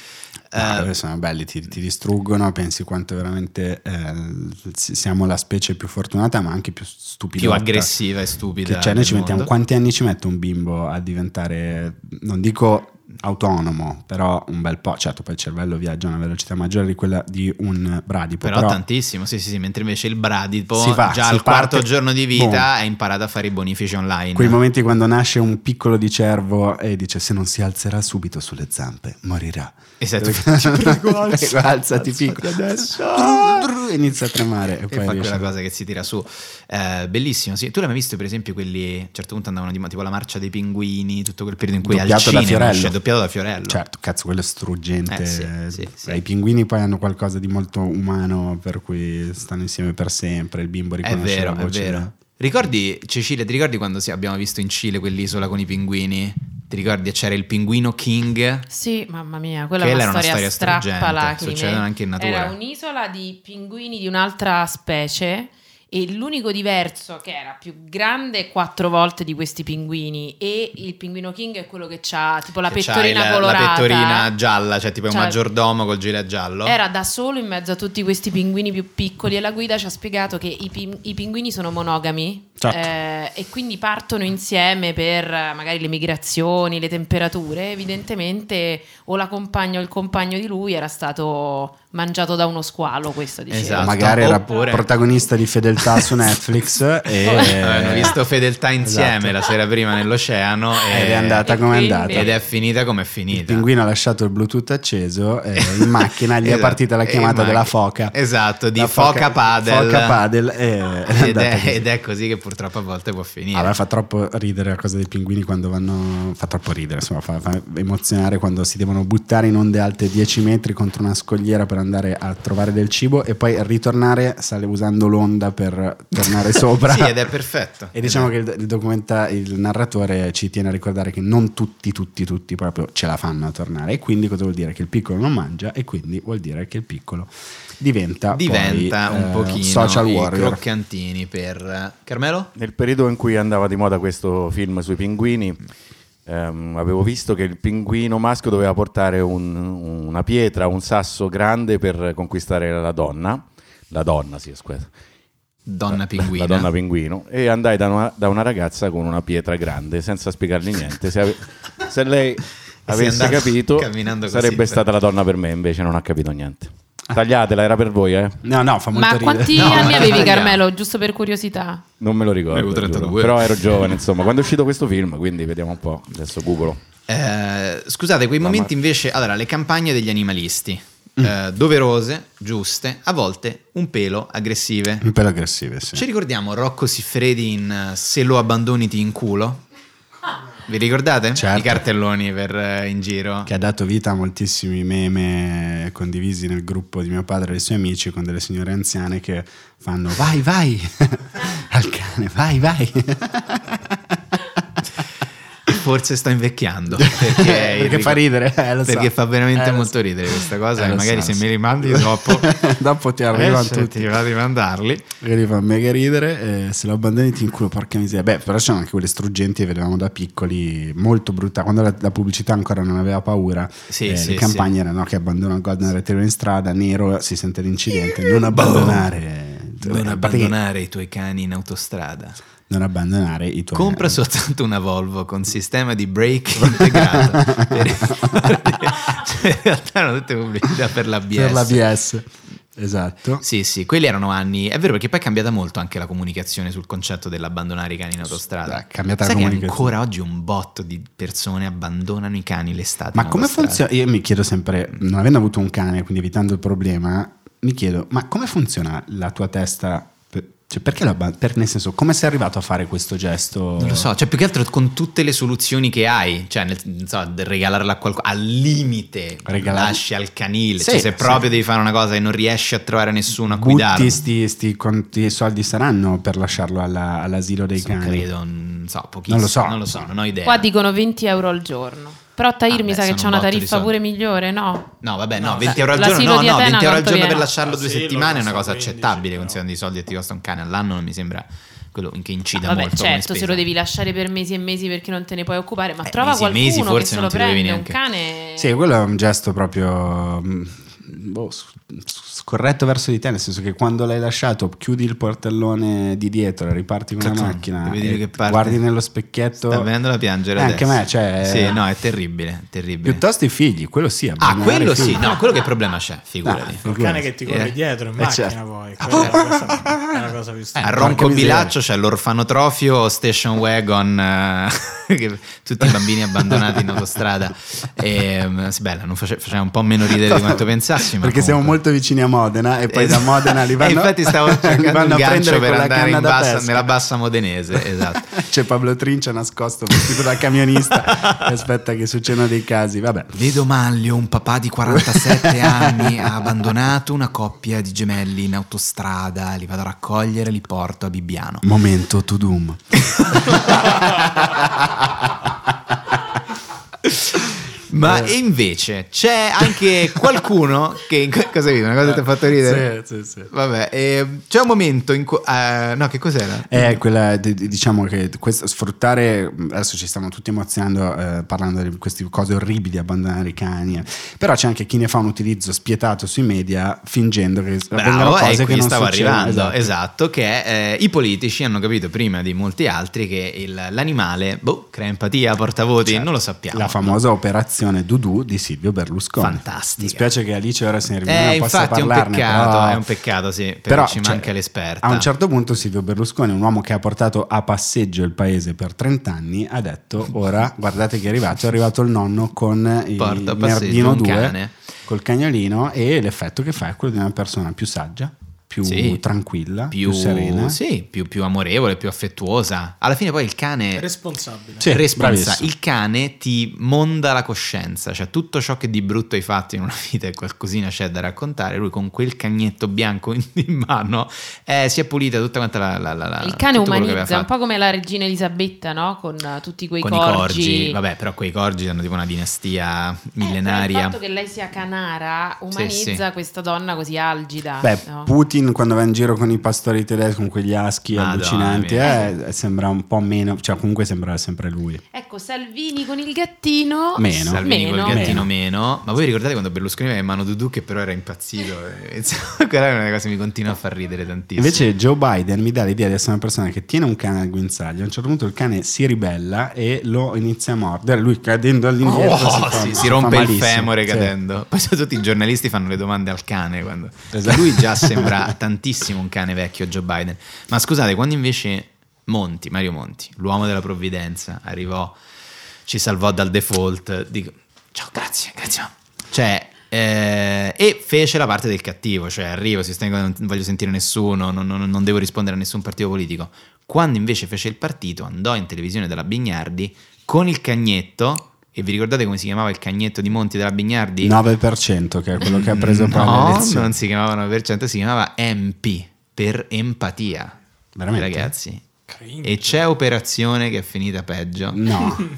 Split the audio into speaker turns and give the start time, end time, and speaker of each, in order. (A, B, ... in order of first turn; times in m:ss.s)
0:00.5-0:00.9 A
0:00.6-0:07.9 B
0:07.4-0:09.5 A
0:08.6-0:18.8 B
0:18.4-0:24.6 A
0:20.7-0:22.7 B
0:24.3-0:35.5 B
0:30.0-0:33.7 A
0:34.9-0:43.8 A
0:41.8-0:43.0 B
0:43.6-0:52.1 B
0:45.1-0:46.2 A
0:51.0-0:58.6 A
0:58.7-1:14.3 C
0:59.8-1:02.5 A
1:12.7-1:16.8 A
1:15.1-1:15.4 C
1:16.6-1:34.2 C
1:22.6-1:22.9 B
1:33.5-1:34.9 A
1:33.8-1:38.2 B
1:37.2-1:37.5 C
1:37.4-1:41.5 A
1:38.8-1:39.4 B
1:40.9-1:42.3 B
1:41.4-1:42.4 C
1:42.1-1:43.7 A
1:43.3-1:48.2 B
1:45.6-1:50.2 A
1:48.7-1:51.8 B
1:51.1-1:53.7 A
1:53.5-2:07.2 B
2:06.3-2:08.3 A
2:07.9-2:20.6 B
2:18.3-2:22.5 A
2:22.6-2:25.6 D
2:26.2-2:34.9 D
2:35.6-2:36.7 A
2:35.9-2:48.4 D
2:42.9-2:44.9 A
2:48.4-2:50.3 B
2:48.9-2:51.8 C
2:49.5-2:50.6 A
2:52.0-2:56.8 D
2:52.5-2:53.7 A
2:57.1-3:05.1 A
2:58.4-2:58.7 D
3:05.0-3:06.0 B
3:05.9-3:09.6 A
3:10.6-3:13.5 A
3:11.4-3:11.8 B
3:13.4-3:24.2 B
3:25.7-3:28.2 A
3:26.9-3:34.1 B
3:28.8-3:32.6 A
3:33.3-3:35.1 A
3:35.2-3:50.6 B
3:43.9-3:44.7 A
3:48.3-3:49.1 A
3:49.8-3:52.4 A
3:52.7-3:54.2 B
3:53.7-4:01.8 A
3:56.6-3:58.5 B
4:01.3-4:03.4 B
4:03.4-4:13.8 A
4:08.6-4:10.0 B
4:13.1-4:24.1 B
4:23.8-4:34.2 A
4:29.4-4:30.0 B
4:30.8-4:31.4 B
4:33.4-4:38.3 B
4:37.8-4:40.7 A
4:39.3-4:40.1 B
4:40.4-4:44.9 C
4:42.7-4:43.9 A
4:45.0-4:53.6 A
4:45.4-4:45.8 E
4:45.8-4:47.4 C
4:47.5-4:49.6 E
4:52.6-4:58.7 C
4:56.0-4:58.0 A
4:58.6-5:09.9 B
5:07.2-5:08.8 A
5:09.6-5:13.2 A
5:10.6-5:11.8 B
5:13.0-5:15.4 B
5:14.4-5:16.8 A
5:16.4-5:17.3 B
5:16.8-5:21.4 E
5:17.4-5:17.7 A
5:18.2-5:20.1 B
5:19.1-5:19.4 A
5:20.8-5:31.8 A
5:20.8-5:21.7 B
5:26.4-5:27.0 B
5:30.1-5:36.9 B
5:32.9-5:38.4 A
5:38.3-5:43.4 B
5:41.1-5:41.4 A
5:43.3-5:51.6 A
5:44.9-5:46.5 B
5:51.6-5:56.2 B
5:53.1-5:54.0 A
5:57.0-6:02.9 A
5:58.0-5:58.3 B
6:02.1-6:03.5 B
6:03.5-6:07.0 A
6:06.7-6:19.9 B
6:17.9-6:27.2 A
6:26.0-6:33.0 B
6:29.4-6:30.3 A
6:31.2-6:35.3 A
6:33.9-6:50.8 B
6:43.2-6:44.7 A
6:48.8-6:49.2 A
6:49.9-6:54.1 A
6:53.9-6:54.9 E
6:54.8-6:55.7 B
6:54.8-7:07.5 A
7:06.4-7:11.0 C
7:10.0-7:14.2 A
7:13.4-7:18.3 C
7:15.7-7:16.2 A
7:17.8-7:25.0 B
7:21.1-7:22.3 A
7:25.1-7:28.3 C
7:27.2-7:28.5 B
7:27.4-7:34.8 A
7:34.6-7:44.3 B
7:42.0-7:55.2 A
7:47.3-7:48.5 B
7:55.8-8:14.4 A
8:14.2-8:16.9 B
8:15.4-8:20.6 A
8:21.0-8:21.5 B
8:21.1-8:21.8 A
8:22.1-8:22.8 E
8:22.4-8:25.0 A
8:24.7-8:25.3 B